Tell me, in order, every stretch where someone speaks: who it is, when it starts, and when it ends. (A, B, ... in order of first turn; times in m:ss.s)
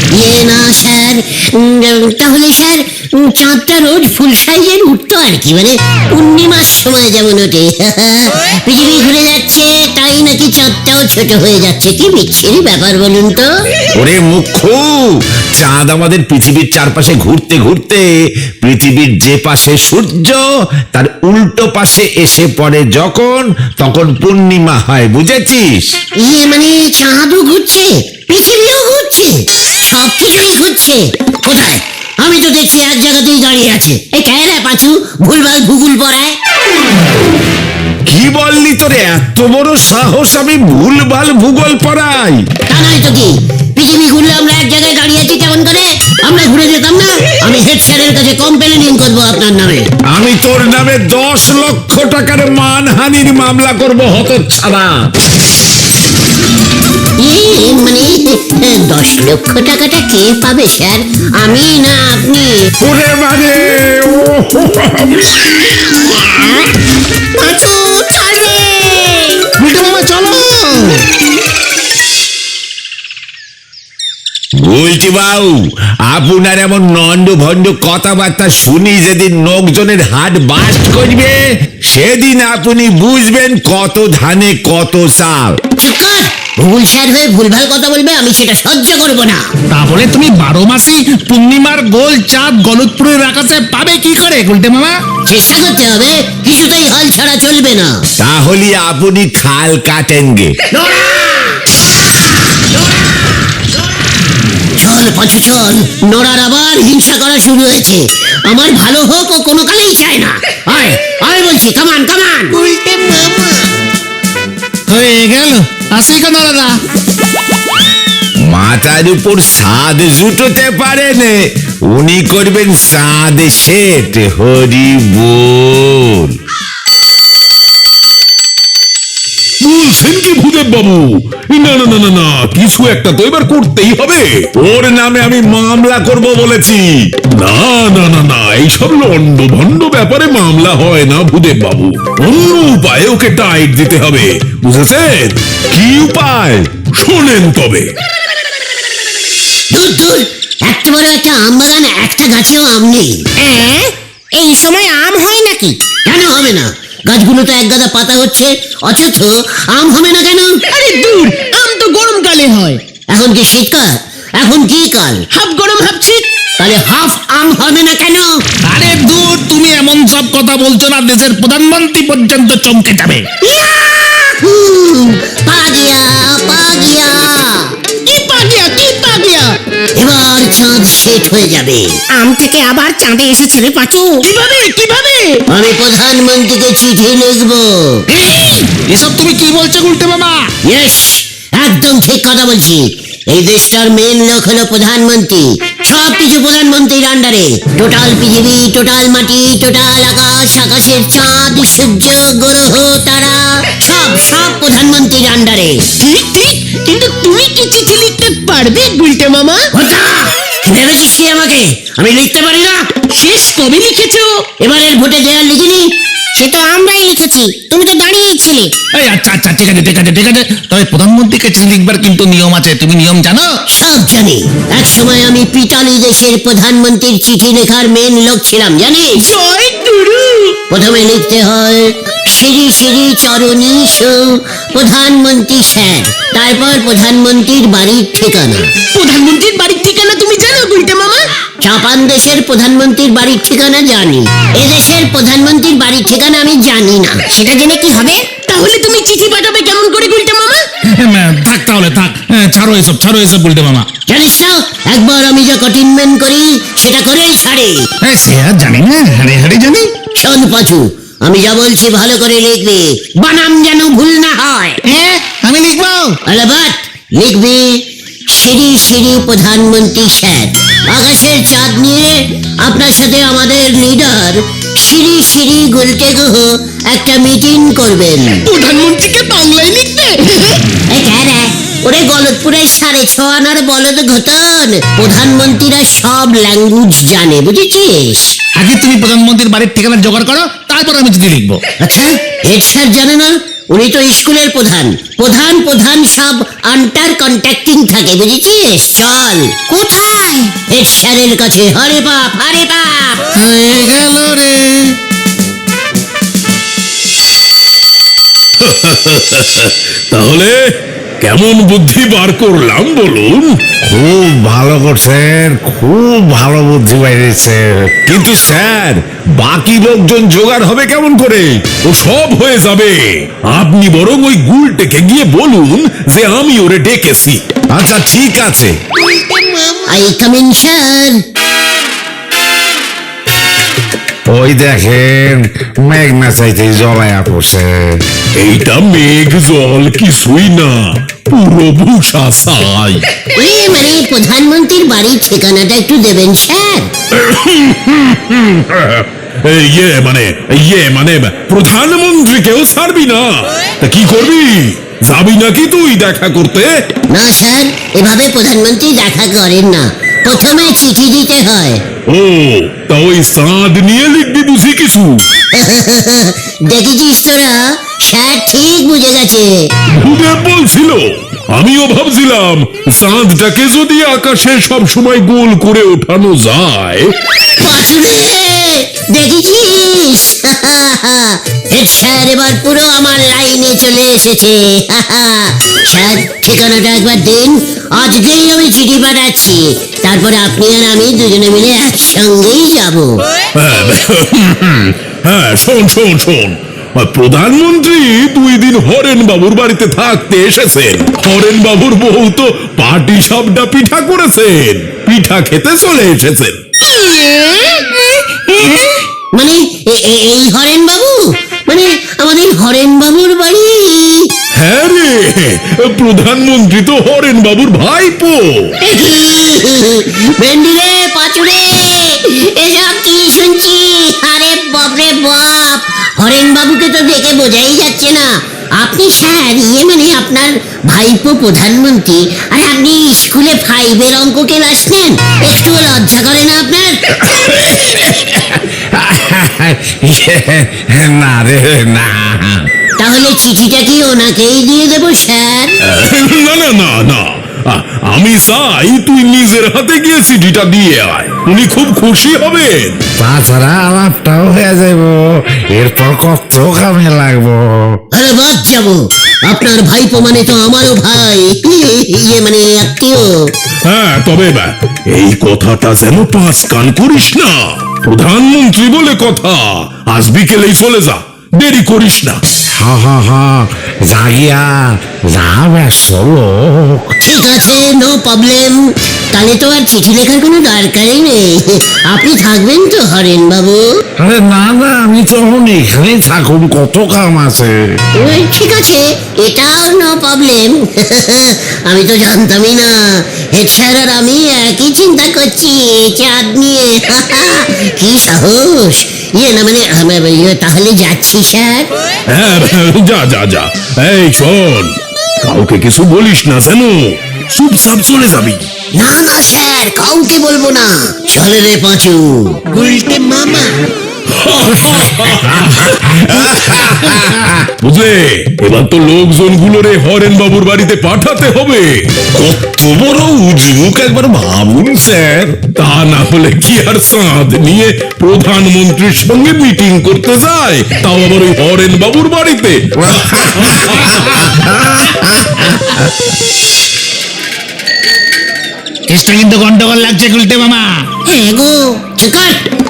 0:00.2-0:13.5 A
0:14.0-0:18.1 B
0:18.6-0:26.0 B
0:26.2-0:36.4 A
0:38.1-0:42.5 B
0:42.7-0:49.9 A
0:50.1-0:55.1 B
0:57.2-1:02.7 A
1:02.8-1:05.9 B
1:07.4-1:09.4 C
1:09.6-1:11.1 D
1:14.6-1:25.6 B
1:25.8-1:29.5 A
1:29.7-1:35.0 D
1:35.3-1:38.0 A
1:38.2-1:40.6 B
1:40.8-1:41.8 A
1:44.8-1:52.6 A
1:52.6-1:53.6 E
1:54.9-1:56.8 D
1:58.4-2:06.4 B
2:09.6-2:14.4 F
2:14.6-2:17.1 B
2:17.4-2:25.4 F
2:25.7-2:26.7 B
2:27.0-2:27.9 F
2:29.7-2:33.2 A
2:33.4-2:35.8 C
2:36.1-2:40.6 A
2:40.7-2:42.8 E
2:43.1-2:45.2 A
2:45.3-2:46.3 E
2:46.6-2:48.3 A
2:48.6-2:53.3 D
2:53.4-2:57.7 A
2:58.1-2:59.6 E
3:00.0-3:01.9 A
3:02.1-3:04.3 C
3:04.2-3:05.4 E
3:05.5-3:08.0 A
3:08.1-3:10.5 D
3:10.6-3:25.9 A
3:26.0-3:29.6 E
3:29.7-3:32.9 A
3:33.1-3:34.5 E
3:34.6-3:35.9 A
3:36.4-3:38.7 C
3:38.9-3:43.5 D
3:43.7-3:49.3 A
3:49.2-3:50.6 E
3:50.7-3:58.7 A
3:58.9-4:01.3 E
4:01.6-4:07.2 A
4:07.3-4:08.3 C
4:08.4-4:10.7 E
4:11.0-4:13.9 D
4:14.1-4:17.8 A
4:18.0-4:19.9 D
4:20.2-4:24.8 A
4:24.9-4:26.2 D
4:26.3-4:27.8 A
4:28.3-4:38.5 A
4:38.5-4:40.6 E
4:40.9-4:48.3 A
4:48.6-4:51.6 D
4:51.8-4:59.5 A
4:59.7-5:00.5 C
5:00.7-5:03.2 A
5:03.4-5:05.0 D
5:08.6-5:10.6 F
5:11.2-5:13.5 F
5:13.9-5:21.6 B
5:21.9-5:27.4 F
5:27.7-5:28.8 B
5:29.9-5:31.2 A
5:34.3-5:38.0 B
5:38.4-5:43.1 F
5:43.3-5:46.9 A
5:47.1-5:56.7 F
5:57.1-6:01.8 A
6:02.1-6:05.3 F
6:05.6-6:09.7 A
6:09.9-6:17.1 F
6:17.6-6:33.2 A
6:33.6-6:46.6 F
6:49.4-6:54.3 A
6:54.6-6:58.7 F
6:58.8-7:17.0 A
7:17.2-7:22.7 B
7:23.0-7:25.8 A
7:25.9-7:33.0 F
7:33.2-7:38.0 B
7:38.1-7:43.3 A
7:43.9-7:52.4 F
7:52.8-7:57.1 B
7:57.2-8:03.9 A
8:04.2-8:08.0 B
8:08.2-8:21.9 A
8:22.3-8:28.7 F
8:29.0-8:32.7 A
8:32.7-8:33.7 E
8:34.4-8:42.1 F
8:35.6-8:37.6 B
8:42.4-8:45.6 B
8:45.8-8:54.4 F
8:53.0-8:56.1 B
8:59.1-9:01.1 D
9:01.3-9:02.6 A